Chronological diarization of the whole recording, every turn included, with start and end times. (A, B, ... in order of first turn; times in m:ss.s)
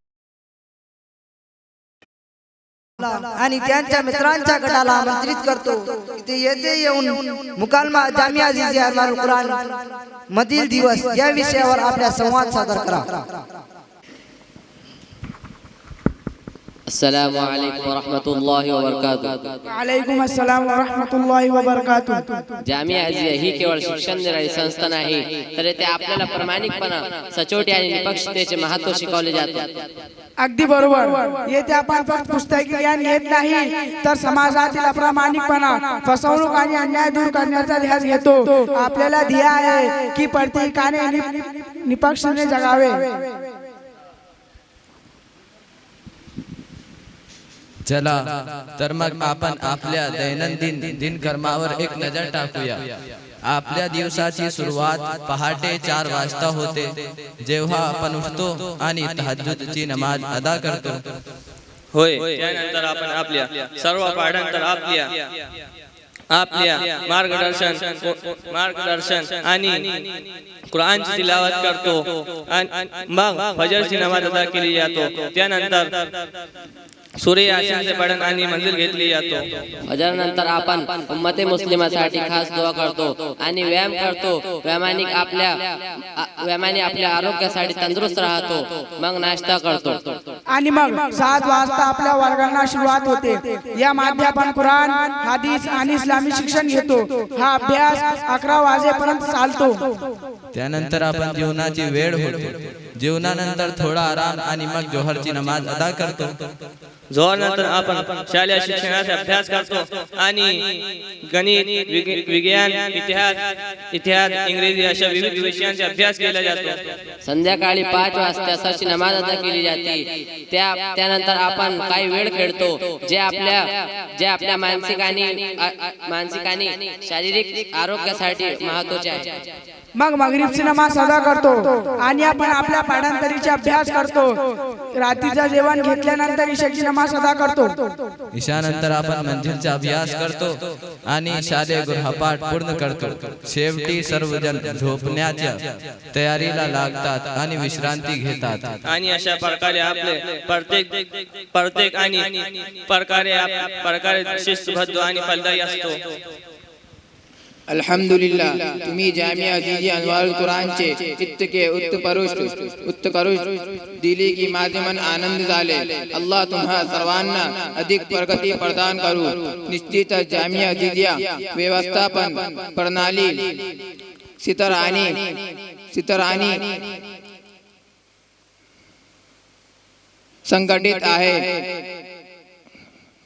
0:03.0-0:09.6 A
0:10.3-0:13.4 A
0:16.9-0:19.6 B
0:19.7-0:22.4 C
0:22.6-0:29.9 B
0:30.4-0:43.3 C
0:47.8-0:52.8 D
0:53.4-0:56.9 D
0:57.4-1:01.0 D
1:01.9-1:05.3 E
1:06.3-1:10.1 E
1:10.7-1:16.1 E
1:17.2-1:19.4 E
1:19.8-1:30.2 B
1:30.5-1:40.0 C
1:40.5-1:46.3 D
1:47.1-1:53.4 E
1:53.9-1:56.8 E
1:57.2-2:09.4 B
2:09.9-2:14.3 C
2:14.9-2:17.9 C
2:18.3-2:20.6 D
2:21.1-2:28.8 D
2:28.8-2:36.0 E
2:37.7-2:53.5 F
2:54.4-2:55.2 F
2:55.9-2:56.7 F
3:00.5-3:01.7 F